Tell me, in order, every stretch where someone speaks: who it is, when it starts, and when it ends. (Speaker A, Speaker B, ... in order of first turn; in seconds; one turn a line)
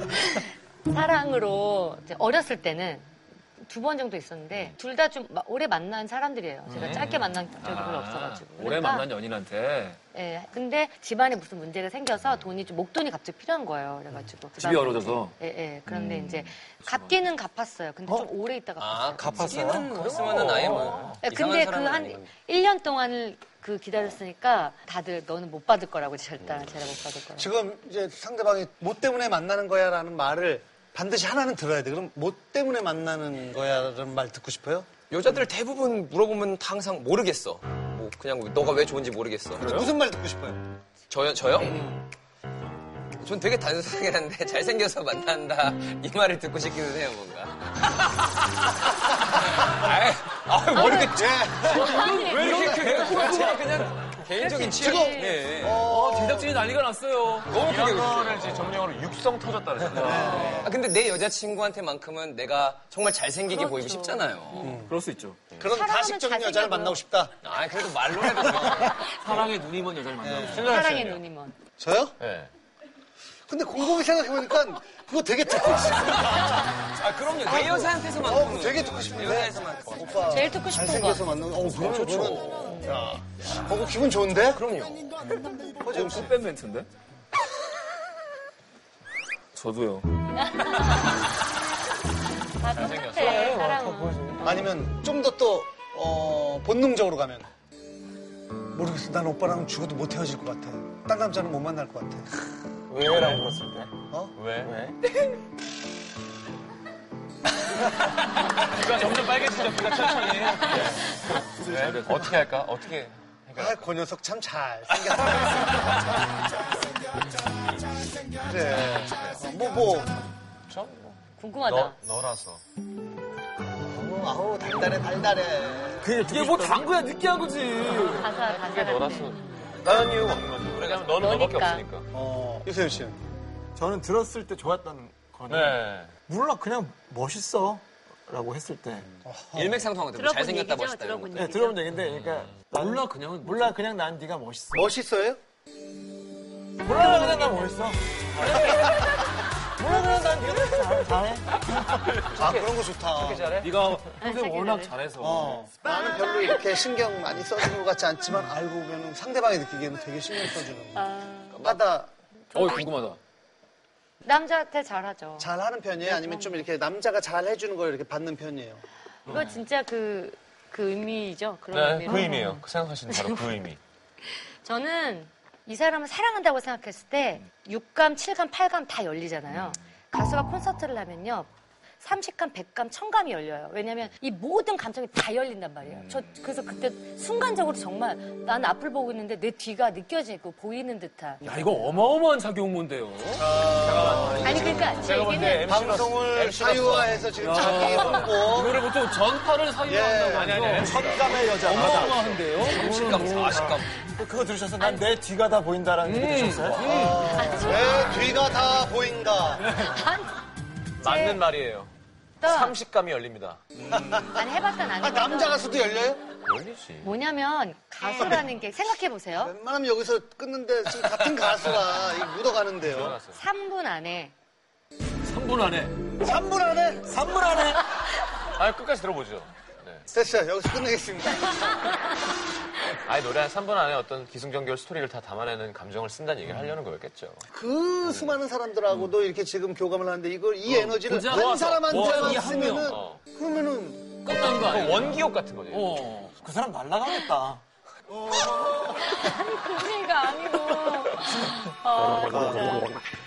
Speaker A: 0.2-3.1
Speaker A: 3.6-9.1
Speaker B: 6.7-7.0
Speaker C: 6.7-7.2
Speaker B: 7.5-10.0
Speaker A: 10.1-19.4
Speaker B: 14.5-17.3
Speaker D: 18.8-22.3
Speaker E: 19.2-20.0
Speaker B: 19.8-21.2
Speaker C: 20.2-21.2
Speaker A: 21.2-27.5
Speaker F: 27.4-34.9
Speaker D: 35.1-39.9
Speaker F: 39.5-40.6
Speaker D: 41.1-42.0
Speaker F: 41.6-42.0
Speaker D: 43.2-51.8
Speaker F: 50.8-53.7
Speaker B: 51.0-54.0
Speaker A: 51.9-53.3
Speaker D: 52.3-55.9
Speaker C: 52.6-53.1
Speaker A: 54.3-55.5
Speaker F: 54.6-56.6
Speaker B: 55.6-57.7
Speaker D: 57.5-58.7
Speaker C: 57.5-60.8
Speaker F: 59.9-60.8
Speaker B: 59.9-60.7
Speaker D: 60.4-64.8
Speaker A: 63.5-64.7
Speaker F: 64.6-64.9
Speaker B: 64.8-65.5
Speaker F: 65.5-67.3
Speaker A: 65.7-67.0
Speaker D: 67.4-69.3
Speaker F: 68.7-68.9
Speaker B: 69.2-70.7
Speaker F: 70.2-70.7
Speaker C: 70.4-71.2
Speaker A: 70.7-71.6
Speaker F: 71.8-72.2
Speaker C: 72.2-72.5
Speaker F: 73.5-76.7
Speaker D: 76.7-80.4
Speaker F: 77.4-84.7
Speaker A: 80.3-81.3
Speaker D: 81.7-82.8
Speaker A: 82.7-83.0
Speaker D: 84.5-85.2
Speaker F: 85.8-86.4
Speaker B: 85.9-86.9
Speaker B: 89.5-90.2
Speaker A: 90.3-91.0
Speaker A: 92.6-94.6
Speaker C: 92.7-94.4
Speaker E: 93.2-94.7
Speaker F: 94.4-97.5
Speaker F: 98.7-102.3
Speaker E: 102.9-103.9
Speaker C: 103.0-103.4
Speaker F: 104.1-104.3
Speaker C: 104.3-104.7
Speaker E: 104.6-105.0
Speaker C: 108.6-113.9
Speaker E: 111.3-112.2
Speaker B: 111.8-112.2
Speaker F: 113.5-116.0
Speaker F: 118.4-120.2
Speaker C: 120.7-122.6
Speaker A: 121.4-122.0
Speaker F: 123.6-126.1
Speaker E: 126.0-127.0
Speaker B: 126.2-128.5
Speaker A: 128.0-129.4
Speaker C: 128.0-132.1
Speaker F: 129.8-130.4
Speaker D: 130.7-131.2
Speaker A: 131.2-131.8
Speaker F: 132.1-133.2
Speaker E: 133.8-139.1
Speaker C: 135.5-136.1
Speaker F: 139.2-139.9
Speaker D: 139.5-141.5
Speaker A: 140.1-141.8
Speaker E: 141.3-144.9
Speaker C: 141.9-143.4
Speaker F: 144.7-145.4
Speaker E: 146.8-151.6
Speaker B: 148.4-149.1
Speaker C: 151.7-153.8
Speaker F: 152.3-153.7
Speaker B: 153.6-155.6
Speaker A: 154.2-155.0
Speaker F: 155.2-161.0
Speaker A: 155.9-156.7
Speaker A: 160.9-161.6
Speaker F: 161.6-162.1
Speaker A: 162.5-162.8
Speaker B: 162.5-163.2
Speaker A: 164.2-165.5
Speaker F: 165.4-168.8
Speaker A: 166.0-166.7
Speaker B: 169.2-169.5
Speaker A: 169.3-173.5
Speaker C: 171.7-173.8
Speaker A: 174.3-191.4
Speaker B: 191.4-193.5
Speaker F: 193.4-195.1
Speaker C: 193.7-198.2
Speaker B: 194.0-195.6
Speaker A: 194.4-195.6
Speaker F: 195.6-198.8
Speaker B: 197.4-201.0
Speaker F: 199.8-200.7
Speaker C: 200.3-202.7
Speaker E: 200.7-207.1
Speaker B: 201.5-203.5
Speaker D: 202.5-204.0
Speaker B: 206.0-207.3
Speaker F: 206.7-209.9
Speaker A: 207.3-208.4
Speaker B: 209.6-210.0
Speaker A: 209.9-210.3
Speaker C: 211.0-211.9
Speaker A: 211.1-211.4
Speaker A: 212.4-212.8
Speaker C: 212.4-213.9
Speaker F: 213.9-214.4
Speaker A: 214.3-215.8
Speaker F: 215.0-216.2
Speaker C: 216.4-217.1
Speaker A: 217.0-219.5
Speaker B: 218.0-218.3
Speaker F: 218.2-218.4
Speaker F: 219.3-223.2
Speaker C: 221.6-221.9
Speaker C: 222.8-223.4
Speaker A: 223.3-224.3
Speaker B: 225.2-226.0
Speaker F: 226.2-227.1
Speaker E: 227.0-227.8
Speaker C: 228.6-230.1
Speaker F: 230.1-231.8
Speaker C: 232.8-237.4
Speaker F: 237.5-244.8
Speaker C: 238.0-238.3
Speaker B: 240.7-242.9
Speaker C: 241.9-243.2
Speaker B: 244.2-246.3
Speaker C: 244.5-246.3
Speaker E: 246.4-247.6
Speaker A: 248.3-252.7
Speaker B: 248.6-248.9
Speaker E: 252.1-252.8
Speaker B: 252.3-252.8